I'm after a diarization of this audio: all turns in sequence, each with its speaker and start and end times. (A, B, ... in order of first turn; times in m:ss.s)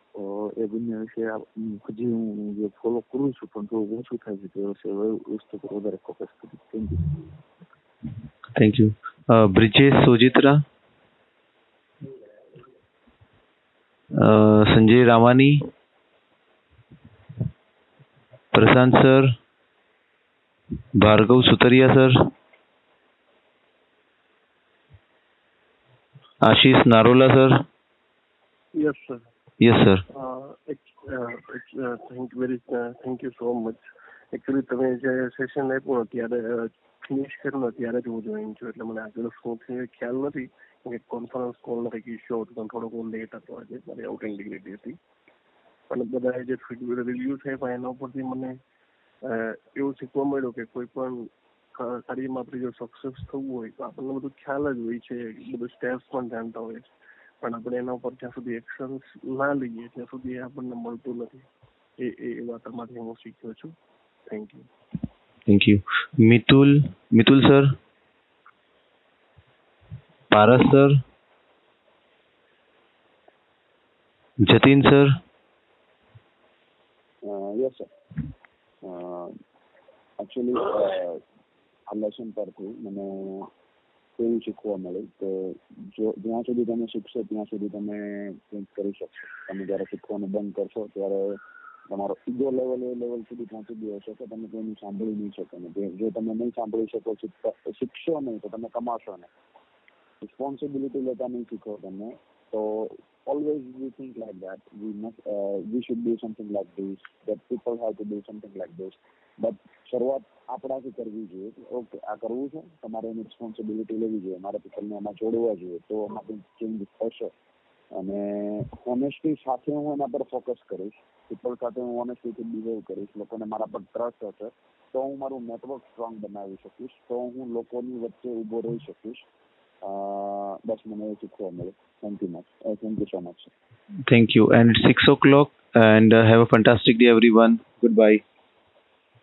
0:00.4-0:06.7 A
0:08.6-0:10.6 B
0:14.2-0:15.6 B
0:18.5-0:19.4 B
0:21.0-0:22.3 B
0:26.4-0:27.6 B
0:28.8-0:29.2 C
0:29.6-0:30.0 B
0:30.1-0:45.0 C
0:45.9-0:48.5 C
0:49.3-0:56.8 C
0:57.4-1:01.5 C
1:02.0-1:03.7 C
1:04.3-1:04.7 C
1:05.5-1:07.8 B
1:10.3-1:11.0 B
1:14.4-1:15.1 B
1:17.2-1:17.9 D
1:18.8-1:19.3 D
1:20.2-1:21.2 D
1:21.9-1:23.5 D
1:24.2-1:39.3 D
1:40.2-1:57.3 D
1:58.0-2:09.2 D
2:09.8-2:13.5 D
2:14.1-2:18.2 B